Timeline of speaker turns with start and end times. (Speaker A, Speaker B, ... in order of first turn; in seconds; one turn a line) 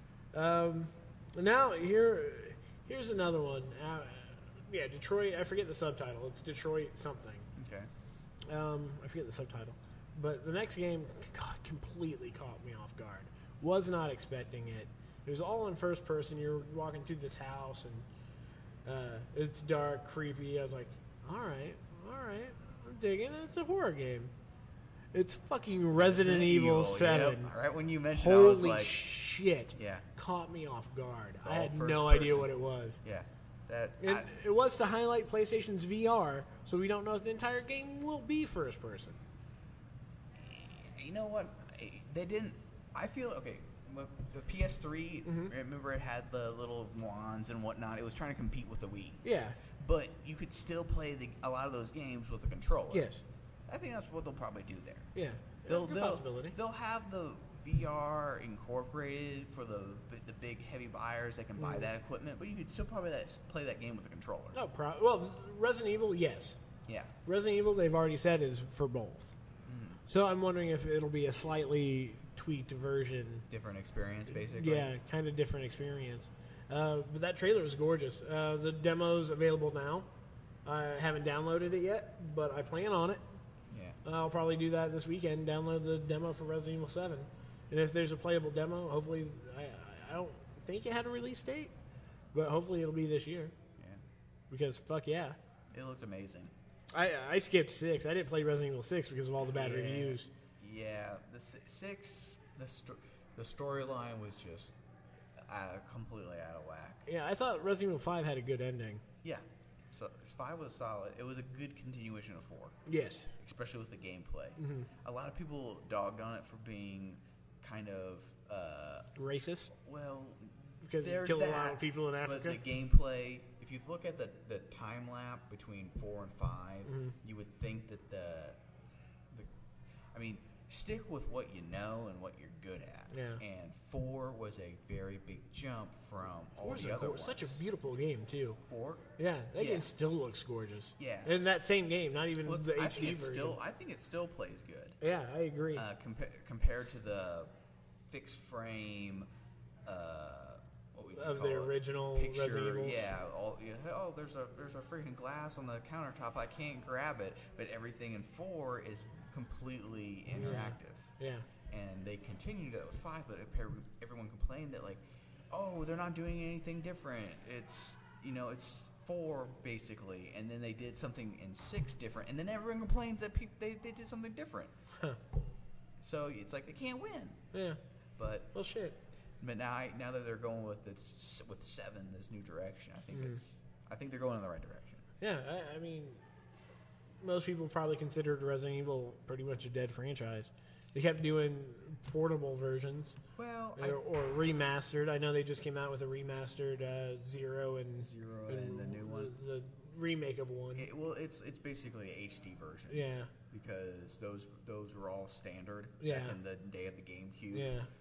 Speaker A: 0.3-7.5
Speaker B: 7.5-7.9
Speaker A: 8.5-18.1
Speaker A: 18.9-24.3
Speaker A: 25.1-27.5
Speaker B: 25.9-29.0
Speaker A: 28.1-33.0
Speaker B: 29.7-30.1
Speaker B: 31.4-34.3
Speaker A: 34.0-39.2
Speaker B: 40.3-53.1
Speaker A: 45.2-45.5
Speaker A: 49.2-49.6
Speaker A: 52.9-53.2
Speaker B: 53.7-55.1
Speaker A: 55.1-56.6
Speaker B: 55.6-64.6
Speaker A: 61.6-61.9
Speaker A: 64.5-66.6
Speaker B: 66.9-67.2
Speaker A: 67.2-69.3
Speaker B: 69.7-70.0
Speaker A: 70.1-73.5
Speaker B: 73.5-74.9
Speaker A: 74.5-80.1
Speaker A: 80.7-83.2
Speaker B: 83.7-84.0
Speaker A: 84.0-91.7
Speaker A: 92.3-93.5
Speaker A: 94.5-95.4
Speaker B: 95.7-96.5
Speaker A: 96.9-100.3
Speaker B: 99.4-104.8
Speaker B: 105.4-107.1
Speaker A: 107.1-109.0
Speaker B: 109.2-112.8
Speaker A: 112.9-113.3
Speaker B: 113.4-119.1
Speaker A: 114.6-114.9
Speaker A: 119.2-119.7
Speaker B: 119.7-128.6
Speaker A: 120.8-122.6
Speaker A: 126.9-127.1
Speaker B: 130.1-137.6
Speaker A: 133.1-133.4
Speaker A: 136.6-138.6
Speaker B: 138.7-139.9
Speaker A: 139.2-143.6
Speaker B: 141.0-141.4
Speaker B: 142.4-145.0
Speaker A: 145.0-145.8
Speaker B: 145.7-147.5
Speaker B: 148.0-149.3
Speaker B: 149.8-161.1
Speaker A: 151.1-153.1
Speaker A: 160.3-161.5
Speaker B: 161.7-174.7
Speaker B: 176.0-177.4
Speaker A: 177.5-177.8
Speaker B: 178.2-178.5
Speaker A: 178.5-179.0
Speaker B: 179.4-185.1
Speaker A: 183.1-183.4
Speaker A: 185.2-186.2
Speaker A: 187.2-193.2
Speaker B: 193.4-194.1
Speaker A: 193.8-200.9
Speaker B: 198.0-199.3
Speaker B: 200.7-207.8
Speaker A: 202.9-203.3
Speaker A: 206.0-206.4
Speaker A: 207.5-207.9